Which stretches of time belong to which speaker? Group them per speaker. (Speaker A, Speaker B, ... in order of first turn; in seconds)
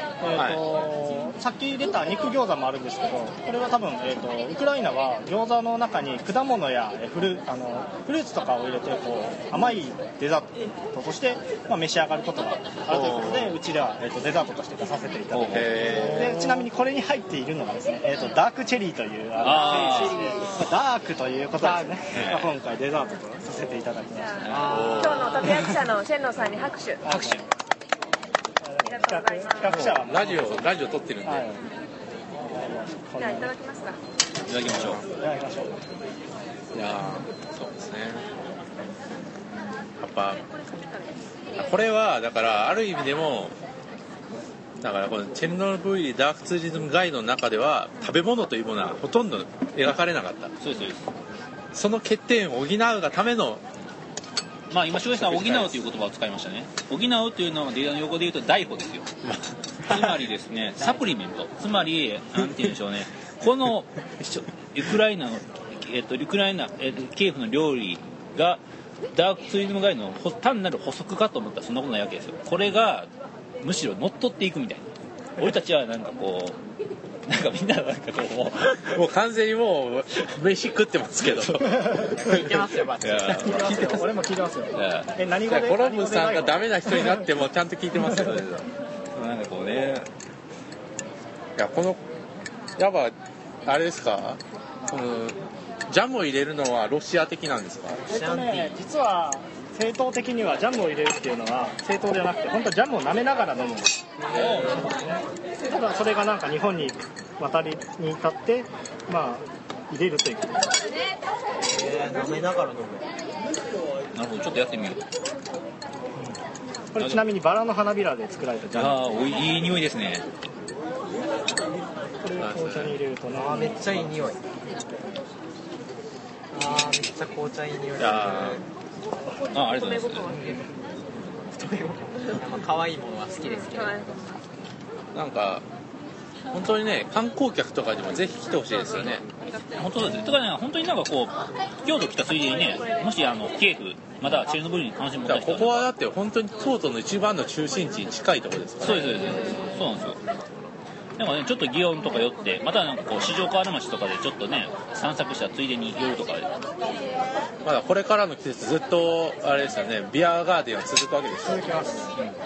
Speaker A: 0.2-24.5, 27.0-27.4, 28.6-31.6, 32.3-33.5, 34.9-35.9, 81.7-82.2, 83.4-87.3, 98.0-110.8, 116.9-119.0, 122.2-124.1, 161.4-162.1
Speaker B: 0.3-0.6, 12.9-13.5, 15.5-16.5, 24.6-25.5, 29.6-31.4, 34.7-35.0, 36.7-38.2, 40.0-40.4, 41.5-43.5, 44.8-50.5, 51.7-53.6, 55.1-55.8, 59.2-60.2, 78.8-82.6, 85.4-88.7, 91.6-92.0, 92.8-98.0, 122.4-123.0, 128.0-128.6, 135.1-135.6, 136.5-139.3, 145.2-149.6, 157.6-161.7
Speaker C: 15.3-16.2, 19.4-20.4, 22.1-22.5, 27.1-27.4, 34.5-35.0, 50.6-51.1, 54.7-59.1, 59.8-68.6, 69.1-73.1, 73.6-74.8, 75.4-76.5, 77.3-79.0, 83.0-83.8, 84.7-85.1, 89.1-90.1, 114.1-115.0, 118.7-120.2, 129.5-130.4, 139.8-145.9, 148.8-150.2, 151.2-156.5
Speaker D: 19.6-20.6, 21.6-22.0, 24.5-25.3, 82.1-84.2, 98.0-98.7, 104.2-104.9, 111.6-113.1, 123.4-124.4, 126.5-128.6, 131.3-134.4, 149.0-150.0
Speaker E: 24.2-27.0, 28.8-29.8, 33.2-34.0, 40.7-41.0, 129.7-130.7, 133.6-134.0